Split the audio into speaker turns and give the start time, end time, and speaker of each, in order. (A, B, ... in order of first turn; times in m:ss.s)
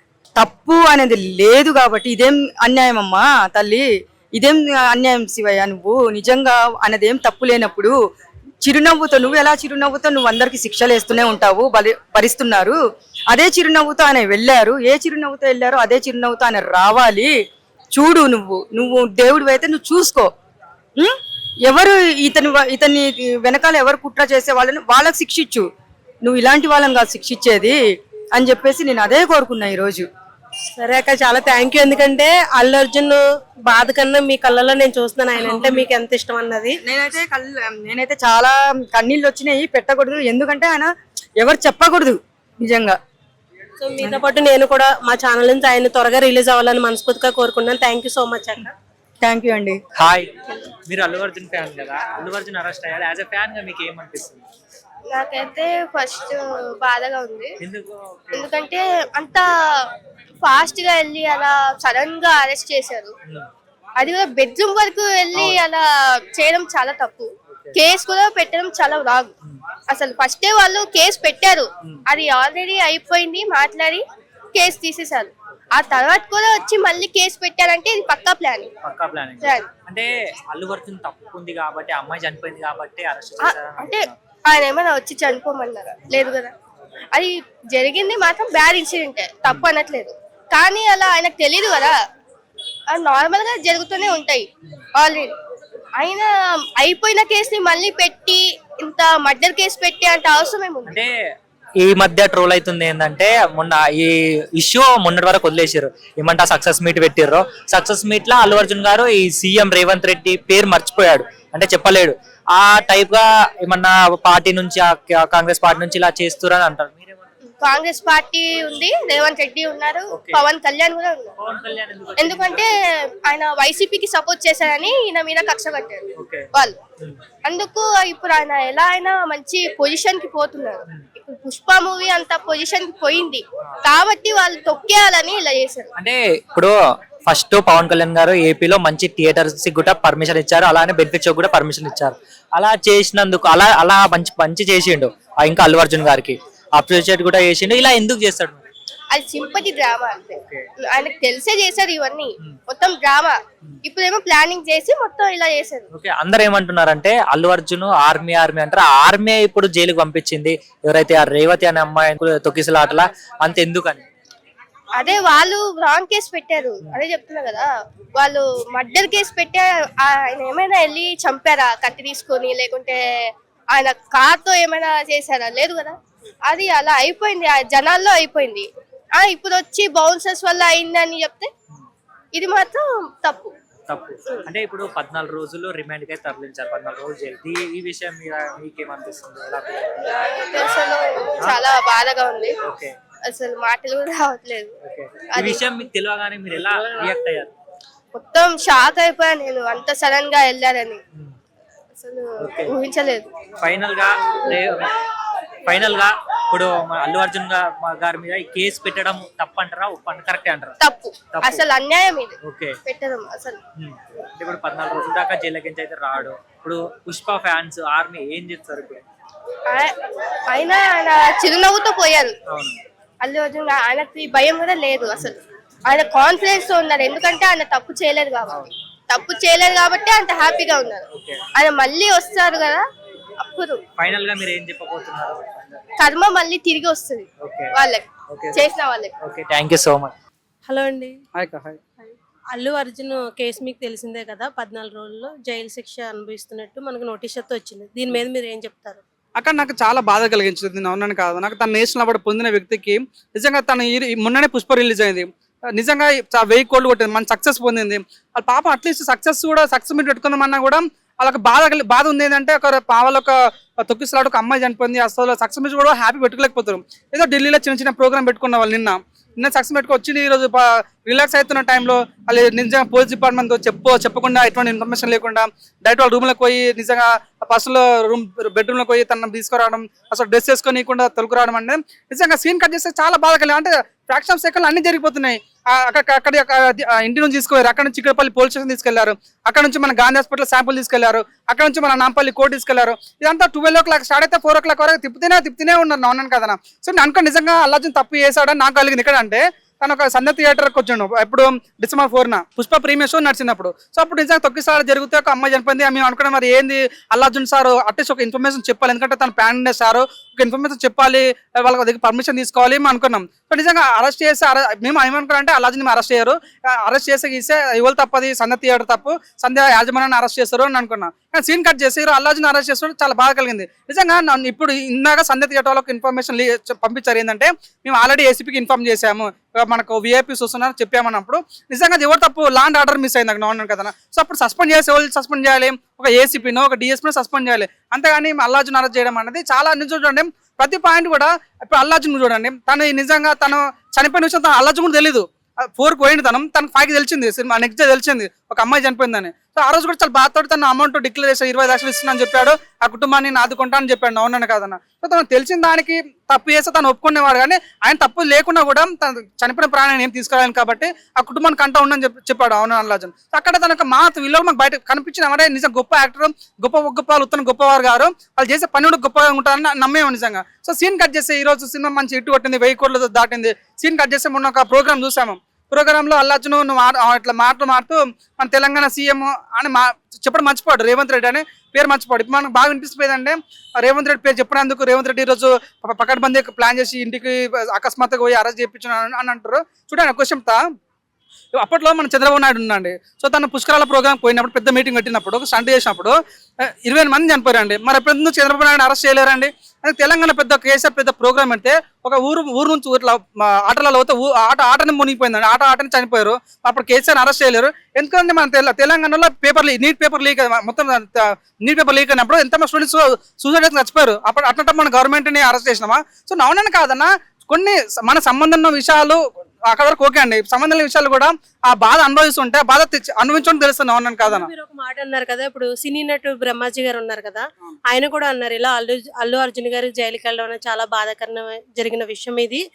0:00.4-0:08.0 A
0:08.6-0:12.8 A
0:13.3-0:17.3 A
0:17.9-0:20.3 A
0:21.0-0:25.7 A
0:26.2-0:27.8 A
0:28.3-0:30.1 A
0:30.8-0:36.8 B
0:35.4-0:35.8 A
0:36.8-0:43.0 A
0:43.8-0:48.7 B
0:49.2-0:49.8 A
0:50.0-0:50.3 C
0:50.8-0:54.4 C
0:55.1-0:57.6 D
0:57.6-0:58.6 C
0:58.3-0:59.9 D
1:00.4-1:03.1 D
1:04.0-1:09.3 D
1:05.3-1:05.6 C
1:09.9-1:18.7 D
1:18.8-1:24.1 C
1:19.4-1:19.7 D
1:23.4-1:26.5 D
1:27.1-1:32.0 D
1:32.9-1:34.4 D
1:35.0-1:35.3 D
1:36.0-1:41.0 D
1:40.8-1:41.1 C
1:41.8-1:57.3 C
1:57.4-2:01.3 D
2:00.1-2:00.4 C
2:01.4-2:02.8 C
2:02.2-2:06.8 D
2:06.2-2:06.5 C
2:07.4-2:15.9 D
2:16.0-2:28.6 C
2:29.1-2:35.9 D
2:30.4-2:30.6 C
2:35.9-2:44.0 C
2:45.0-2:53.0 D
2:53.7-3:01.5 D
3:02.3-3:03.5 D
3:03.9-3:10.1 C
3:10.1-3:12.5 D
3:11.4-3:11.6 C
3:12.6-3:12.9 C
3:13.3-3:14.8 D
3:14.8-3:17.5 C
3:15.3-3:15.6 D
3:18.1-3:21.0 D
3:22.0-3:23.3 D
3:22.4-3:22.7 C
3:23.6-3:24.9 C
3:25.6-3:30.8 C
3:30.8-3:33.6 D
3:31.3-3:31.6 C
3:32.4-3:32.8 C
3:33.8-3:39.0 C
3:40.5-3:42.3 D
3:42.5-3:42.8 C
3:43.2-3:52.8 D
3:51.1-3:51.4 C
3:53.4-3:53.8 D
3:54.0-3:55.8 C
3:56.0-3:59.1 D
3:57.4-3:57.8 C
3:58.3-3:58.7 C
3:59.2-4:00.1 C
4:00.6-4:01.2 B
4:01.4-4:01.8 E
4:02.0-4:09.0 B
4:09.4-6:30.6 E
6:31.5-7:04.5 E
7:04.2-7:12.6 B